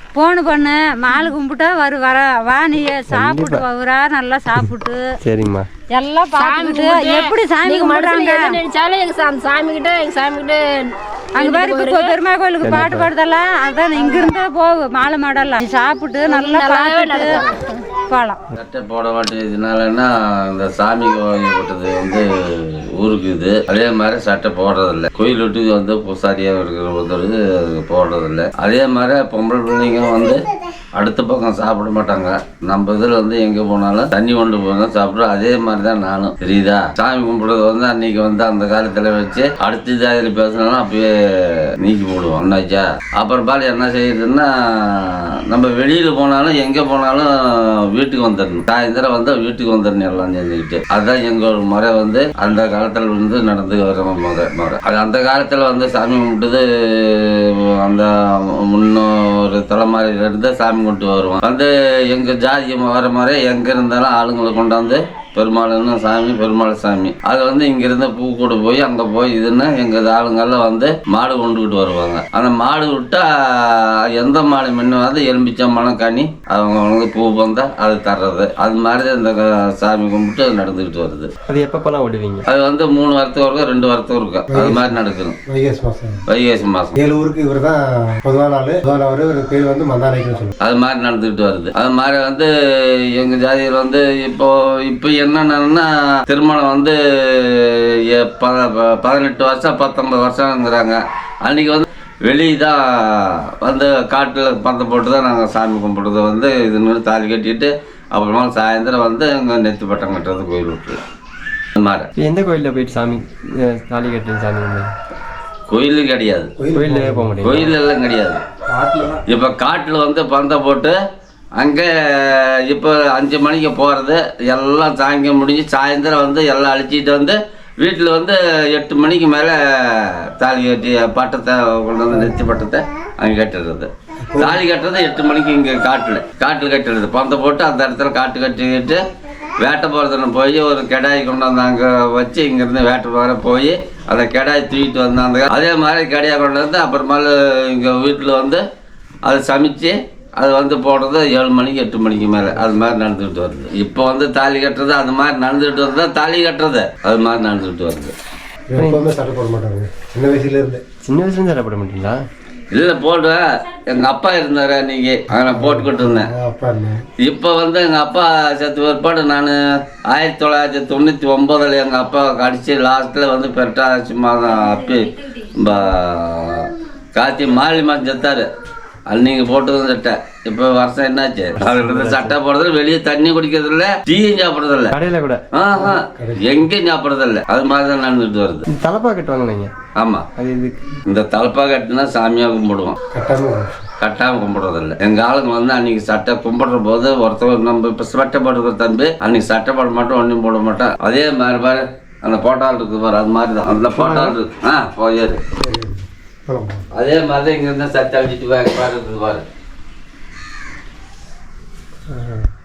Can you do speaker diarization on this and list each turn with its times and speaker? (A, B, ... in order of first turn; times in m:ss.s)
0:00.2-0:05.0 A
0:03.1-0:03.6 B
0:05.2-0:05.7 B
0:05.9-0:08.6 A
0:06.4-0:12.2 C
0:11.4-0:17.4 A
0:12.6-0:13.1 B
0:14.0-0:14.3 C
0:16.3-0:17.8 C
0:18.1-0:18.4 A
0:18.6-1:21.3 D
1:21.5-1:22.4 B
1:22.5-1:25.4 D
1:24.5-1:25.0 E
1:25.5-1:26.2 E
1:26.3-1:27.0 D
1:27.0-1:30.5 E
1:30.6-1:51.0 D
1:51.8-1:52.1 D
1:52.2-1:54.9 B
1:55.7-1:56.5 D
1:56.6-1:57.4 E
1:56.7-1:57.8 B
1:57.4-1:58.4 D
1:58.7-1:59.2 E
1:59.3-2:01.0 D
2:01.6-2:19.0 D
2:14.3-2:14.6 E
2:19.6-2:28.6 D
2:29.3-2:38.2 D
2:38.7-2:40.8 E
2:38.8-2:39.1 B
2:41.0-2:42.2 B
2:42.7-2:46.3 D
2:45.3-2:47.0 E
2:47.2-2:58.5 D
2:59.1-3:05.0 D
3:01.6-3:02.4 B
3:04.9-3:05.4 B
3:05.5-3:08.7 D
3:05.8-3:06.5 E
3:08.7-3:09.7 B
3:10.0-3:10.3 D
3:10.4-3:10.8 B
3:11.1-3:13.0 D
3:13.1-3:13.7 E
3:14.0-3:25.4 D
3:23.9-3:24.4 E
3:25.6-3:26.8 E
3:26.9-3:29.4 D
3:32.1-3:32.5 E